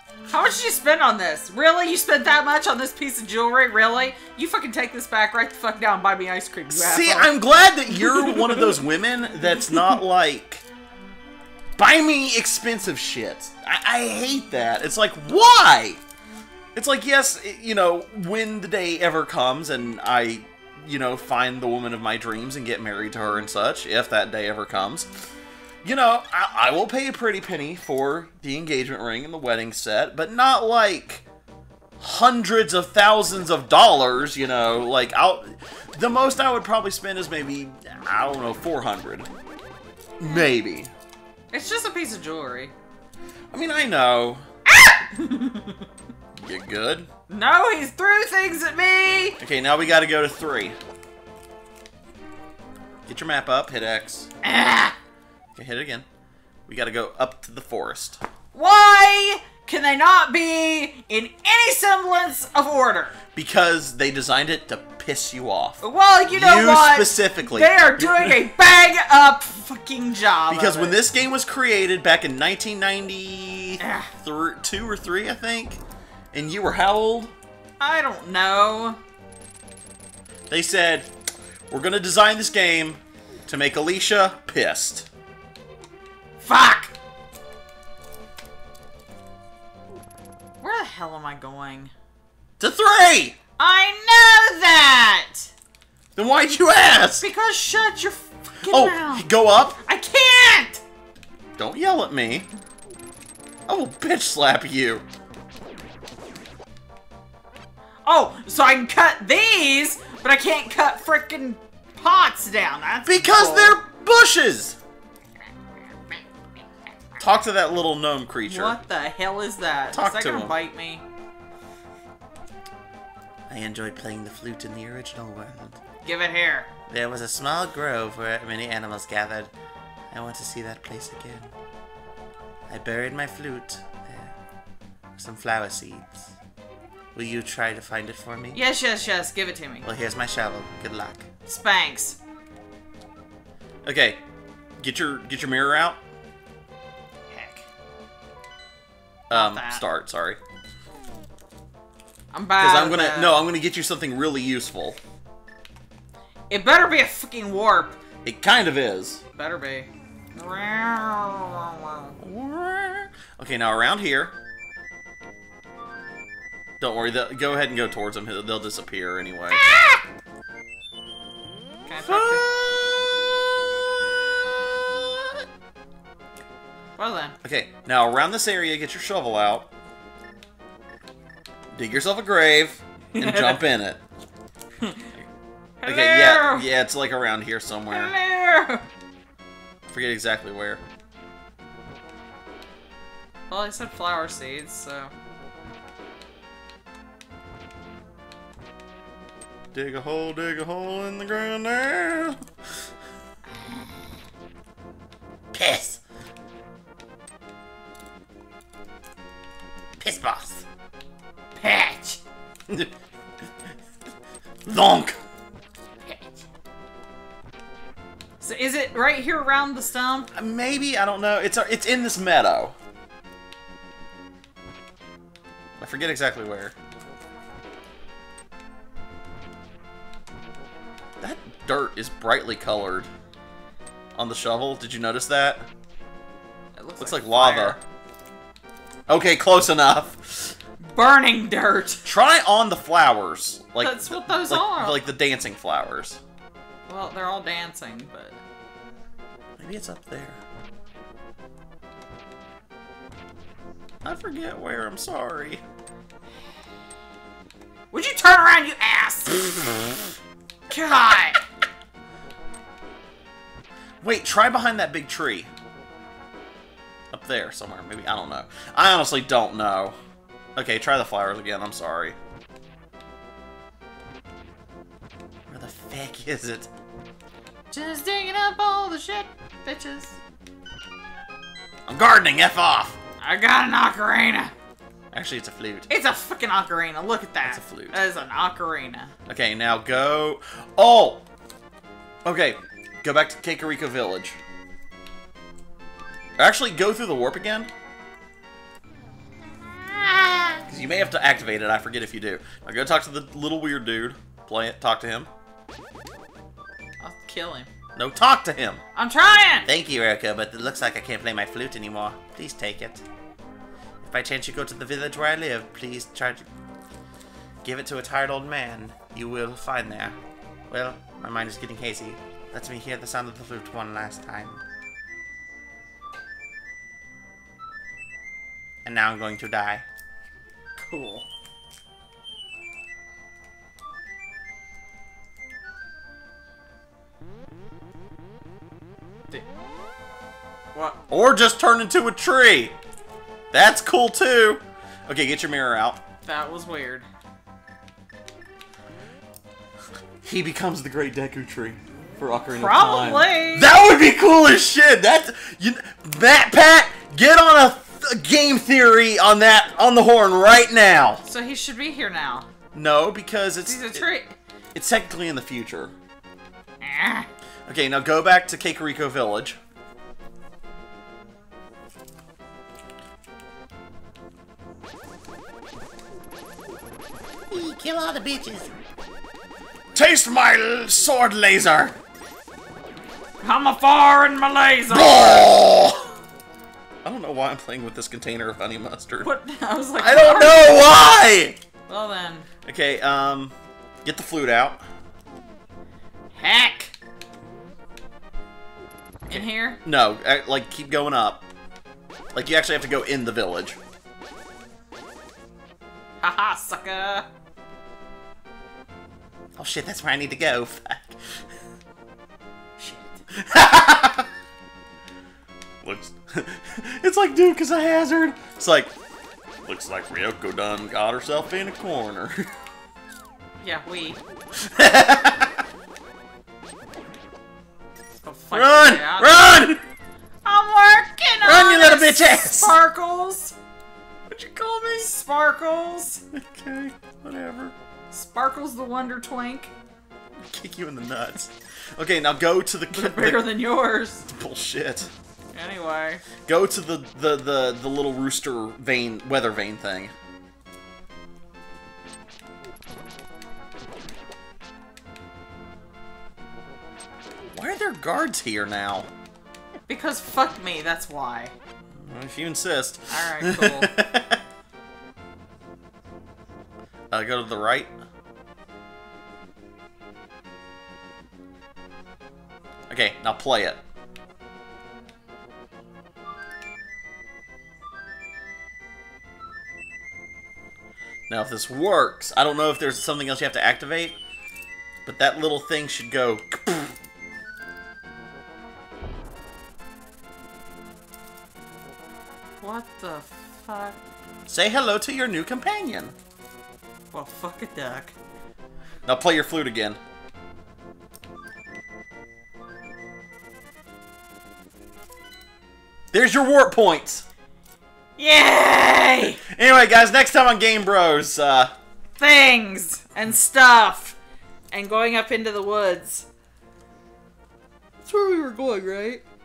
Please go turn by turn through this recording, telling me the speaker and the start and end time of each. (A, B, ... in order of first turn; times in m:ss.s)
0:00.3-0:07.3 A
0:06.7-0:10.6 B
0:07.9-0:08.8 A
0:09.7-0:09.9 A
0:11.8-0:16.0 B
0:16.7-0:25.1 B
0:25.8-0:31.2 B
0:32.0-0:39.3 B
0:40.2-0:40.9 B
0:41.5-0:42.7 A
0:43.5-0:44.4 B
0:44.7-0:45.8 A
0:46.4-0:47.1 B
0:47.3-0:49.4 A
0:49.4-0:50.8 B
0:53.1-0:54.3 B
0:54.4-0:55.0 A
0:55.5-0:56.0 B
0:56.7-0:58.2 B
0:58.5-1:03.1 A
1:03.3-1:08.4 B
1:05.8-1:11.0 A
1:10.5-1:15.8 B
1:13.8-1:14.1 A
1:16.3-1:17.3 B
1:17.8-1:19.0 A
1:20.5-1:21.1 B
1:21.7-1:25.1 B
1:26.4-1:26.9 A
1:30.6-1:31.9 A
1:32.6-1:33.4 B
1:33.6-1:35.5 A
1:36.2-1:37.2 B
1:37.2-1:39.3 A
1:38.6-1:39.8 B
1:39.8-1:40.8 A
1:41.6-1:42.5 B
1:43.7-1:45.0 B
1:48.0-1:53.8 A
1:53.0-1:54.8 B
1:57.2-1:58.8 B
1:58.4-2:01.0 A
1:59.9-2:00.5 B
2:03.5-2:05.8 B
2:06.0-2:06.7 A
2:06.9-2:09.5 B
2:10.1-2:11.5 B
2:12.7-2:14.3 B
2:15.2-2:16.3 B
2:17.1-2:18.6 B
2:18.5-2:19.8 A
2:19.8-2:21.2 B
2:21.5-2:22.2 A
2:23.8-2:24.2 B
2:24.8-2:26.0 B
2:27.3-2:27.6 A
2:29.3-2:30.4 B
2:29.3-2:29.8 A
2:32.3-2:33.4 A
2:32.6-2:35.0 B
2:36.5-2:38.0 A
2:38.2-2:39.2 B
2:39.3-2:42.2 A
2:42.2-2:44.3 B
2:46.8-2:49.7 B
2:49.5-2:50.0 A
2:51.9-2:52.4 A
2:52.0-2:53.1 B
2:57.0-2:57.3 A
2:57.4-2:59.7 B
3:01.7-3:04.0 B
3:03.1-3:03.6 A
3:04.8-3:05.1 A
3:05.8-3:06.7 A
3:05.8-3:08.1 B
3:07.9-3:08.8 A
3:09.9-3:10.8 B
3:13.5-3:15.1 A
3:19.7-3:22.4 B
3:25.5-3:26.0 B
3:30.0-3:30.6 B
3:31.6-3:32.2 A
3:34.6-3:35.2 B
3:36.0-3:36.4 A
3:38.4-3:40.3 A
3:40.3-3:42.7 B
3:45.8-3:46.7 B
3:51.2-3:53.1 B
3:54.2-3:55.7 B
3:56.8-3:57.8 A
3:57.0-3:57.8 B
3:59.1-4:00.5 B
4:00.9-4:02.0 A
4:02.0-4:06.2 B
4:03.8-4:05.1 A
4:06.9-4:08.4 A
4:09.6-4:10.4 B
4:14.0-4:15.6 B
4:17.9-4:19.7 A
4:20.7-4:21.4 A
4:24.0-4:25.5 B
4:27.1-4:29.9 B
4:30.6-4:32.2 B
4:35.5-4:36.7 B
4:37.7-4:40.2 A
4:41.9-4:43.0 B
4:43.2-4:44.5 A
4:45.1-4:45.9 B
4:45.9-4:49.1 A
4:47.4-4:48.0 B
4:49.3-4:51.2 B
4:52.2-4:54.4 B
4:56.4-4:57.7 B
5:00.5-5:05.3 B
5:07.0-5:07.7 A
5:08.0-5:08.8 B
5:08.9-5:09.7 A
5:09.6-5:13.0 B
5:14.0-5:16.5 B
5:17.6-5:20.2 B
5:20.7-5:24.6 B
5:28.8-5:29.8 B
5:30.8-5:31.3 A
5:40.7-5:41.0 A
5:41.1-5:42.7 B
5:43.5-5:46.0 B
5:46.2-5:47.0 A
5:50.2-6:01.2 B
5:52.5-5:53.7 A
6:01.2-6:02.5 A
6:02.7-6:04.1 B
6:03.6-6:04.3 A
6:04.7-6:05.9 B
6:06.8-6:07.3 A
6:07.7-6:09.6 B
6:17.5-6:18.7 B
6:19.9-6:22.0 B
6:23.4-6:25.5 A
6:24.9-6:26.1 B
6:27.0-6:29.3 B
6:29.2-6:30.9 A
6:30.0-6:31.6 B
6:31.9-6:32.5 A
6:32.6-6:34.8 B
6:36.4-6:36.9 A
6:39.3-6:39.8 A
6:39.3-6:41.4 B
6:42.3-6:43.8 B
6:46.2-6:47.2 A
6:49.6-6:51.2 B
6:52.8-6:53.2 A
6:53.4-6:54.3 B
6:55.8-6:58.9 B
6:59.6-7:02.5 B
7:03.6-7:04.2 A
7:04.6-7:05.6 B
7:08.2-7:09.6 A
7:08.5-7:09.8 B
7:10.4-7:13.6 A
7:11.4-7:12.7 B
7:14.3-7:15.1 B
7:15.0-7:16.2 A
7:16.3-7:17.7 B
7:18.1-7:19.7 A
7:20.5-7:23.7 B
7:22.9-7:24.2 A
7:24.3-7:25.1 B
7:25.5-7:26.2 A
7:26.4-7:30.1 B
7:37.5-7:39.1 B
7:39.9-7:41.5 A
7:42.0-7:44.4 B
7:43.1-7:43.9 A
7:47.1-7:47.9 B
7:52.9-7:53.8 B
8:01.3-8:04.2 B
8:05.0-8:06.9 B
8:12.6-8:14.0 A
8:14.5-8:16.1 B
8:17.1-8:18.1 A
8:19.0-8:20.0 B
8:26.1-8:27.2 B
8:28.2-8:29.4 A
8:29.5-8:31.7 B
8:32.2-8:34.2 A
8:34.7-8:36.3 A
8:38.0-8:39.2 A